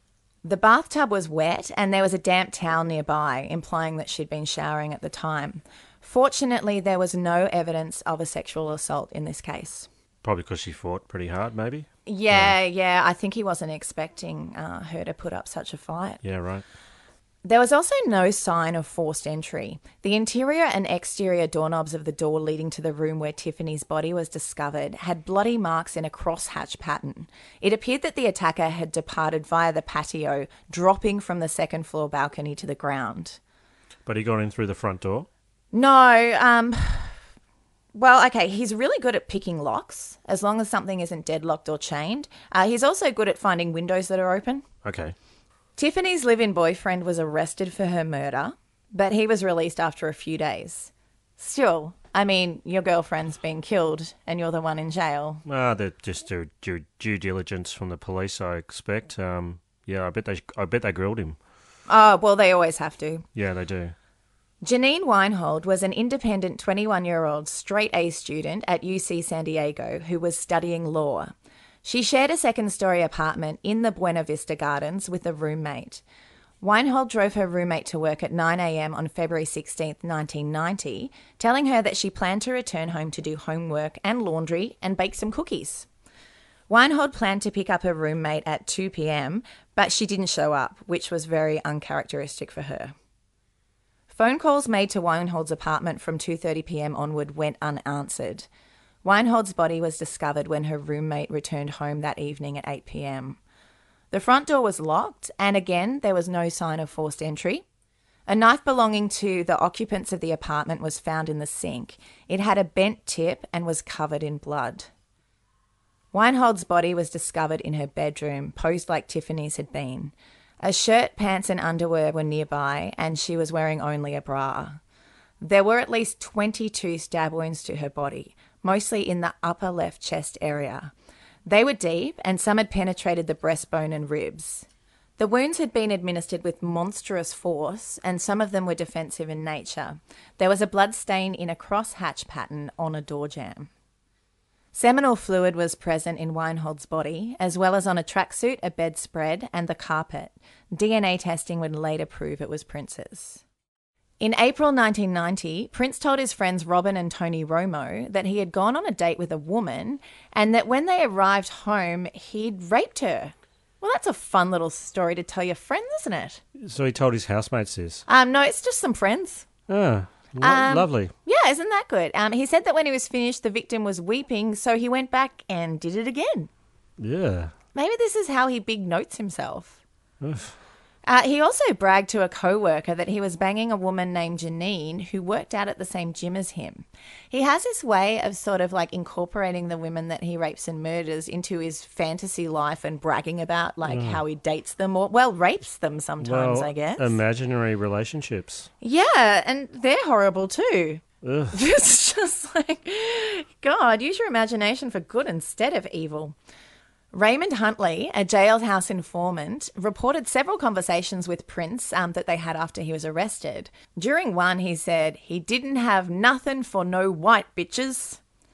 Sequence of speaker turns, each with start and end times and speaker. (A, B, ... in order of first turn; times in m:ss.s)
0:00.4-0:09.9 A
0:10.2-0:12.6 B
0:12.0-0:16.2 A
0:16.2-0:16.6 B
0:17.4-0:33.4 A
0:34.0-0:35.3 B
0:35.7-0:37.1 A
0:37.9-0:44.6 A
0:44.8-0:45.1 B
0:45.8-0:55.4 A
0:55.4-1:01.4 B
1:01.9-1:03.2 A
1:03.3-1:03.9 B
1:04.6-1:16.0 A
1:16.6-1:25.9 A
1:26.7-1:32.9 A
1:34.1-1:38.5 A
1:39.0-1:43.4 A
1:44.1-1:47.6 A
1:48.3-1:54.9 A
1:56.1-2:04.8 A
2:05.4-2:10.9 A
2:11.4-2:14.6 A
2:15.2-2:23.7 A
2:24.7-2:33.4 A
2:34.2-2:46.4 A
2:46.6-2:48.0 B
2:48.1-2:49.5 A
2:49.7-2:51.1 B
2:50.4-2:56.5 A
2:57.0-2:57.5 B
2:57.7-2:59.8 A
3:00.2-3:00.6 B
3:01.0-3:17.1 A
3:13.8-3:14.2 B
3:16.2-3:18.7 B
3:18.8-3:21.0 A
3:21.2-3:21.6 B
3:21.5-3:26.3 A
3:27.1-3:38.2 A